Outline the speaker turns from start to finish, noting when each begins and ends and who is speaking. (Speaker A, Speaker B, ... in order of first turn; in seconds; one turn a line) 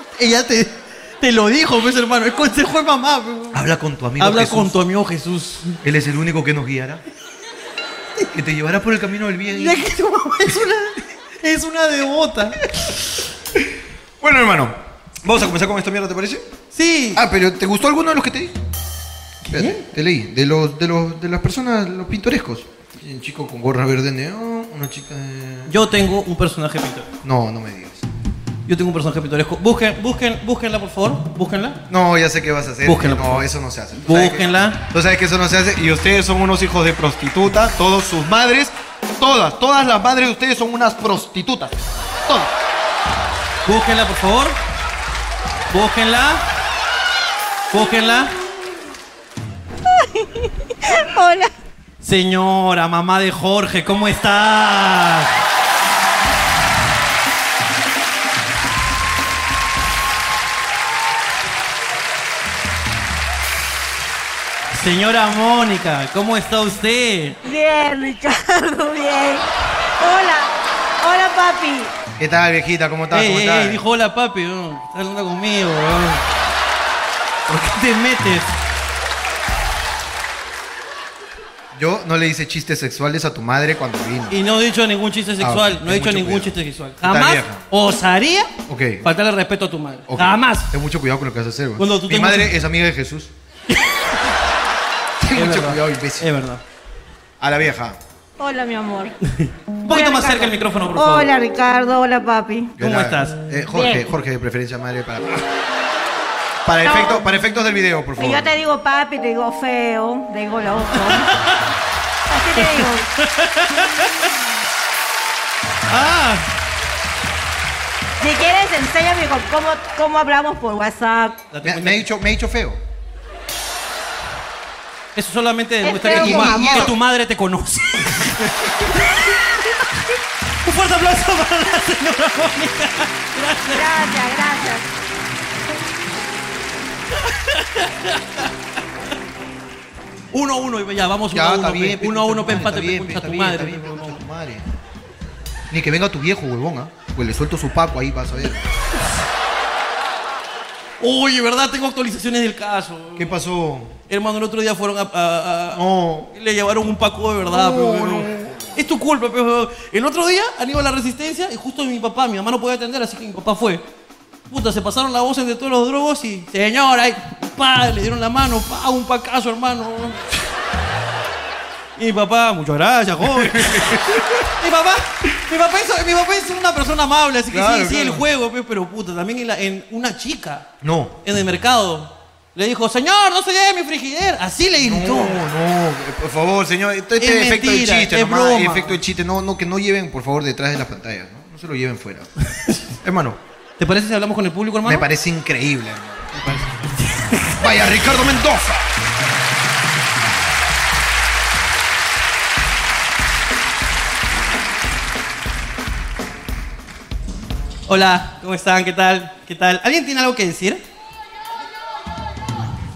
Speaker A: 0.2-3.6
Speaker B: 3.5-4.8
Speaker A: 4.2-5.8
Speaker B: 5.8-7.0
Speaker B: 8.3-9.8
Speaker A: 9.5-12.6
Speaker B: 14.2-16.5
Speaker A: 16.7-17.2
Speaker B: 17.1-18.6
Speaker B: 19.5-25.8
Speaker A: 19.5-19.8
Speaker A: 25.7-27.1
Speaker B: 27.2-28.0
Speaker A: 28.7-31.8
Speaker B: 31.9-42.5
Speaker A: 32.8-34.8
Speaker A: 43.6-44.6
Speaker A: 45.7-46.4
Speaker A: 47.7-48.3
Speaker C: 50.9-51.5
Speaker A: 52.0-55.3
Speaker A: 64.7-67.4
Speaker C: 67.4-69.4
Speaker C: 70.0-71.9
Speaker B: 72.2-73.8
Speaker A: 73.1-76.2
Speaker A: 77.5-78.5
Speaker B: 81.7-84.4
Speaker A: 84.3-88.5
Speaker B: 85.4-87.6
Speaker B: 88.7-89.1
Speaker A: 89.0-90.7
Speaker B: 90.1-93.3
Speaker A: 91.8-92.6
Speaker B: 95.2-96.3
Speaker A: 95.3-96.6
Speaker B: 97.4-98.0
Speaker C: 98.4-99.2
Speaker A: 99.4-101.3
Speaker C: 99.9-102.7
Speaker B: 102.8-105.5
Speaker A: 102.8-103.4
Speaker C: 103.7-104.1
Speaker B: 106.7-108.6
Speaker C: 106.8-107.2
Speaker C: 108.2-111.3
Speaker A: 111.0-111.6
Speaker C: 112.3-113.1
Speaker A: 112.5-114.1
Speaker A: 115.9-116.5
Speaker C: 118.2-121.5
Speaker A: 121.5-122.1
Speaker B: 121.6-122.8
Speaker A: 125.2-128.5
Speaker C: 125.8-126.9
Speaker B: 126.0-126.9
Speaker A: 130.6-133.9
Speaker C: 133.7-134.9
Speaker A: 137.3-138.4
Speaker A: 140.3-144.2
Speaker B: 141.3-144.7
Speaker B: 145.7-148.7
Speaker A: 151.0-153.4
Speaker B: 153.2-154.0
Speaker A: 154.1-163.8
Speaker B: 155.7-156.3
Speaker B: 157.5-158.7
Speaker A: 164.5-170.2
Speaker A: 172.0-174.0
Speaker B: 173.3-174.2
Speaker A: 174.6-180.7
Speaker B: 177.5-178.2
Speaker B: 180.8-181.2
Speaker A: 181.2-185.4
Speaker B: 184.8-192.3
Speaker A: 187.2-189.0
Speaker B: 193.0-193.4
Speaker A: 193.8-195.1
Speaker B: 194.8-196.6
Speaker A: 196.4-197.6
Speaker B: 197.6-198.9
Speaker A: 207.9-210.8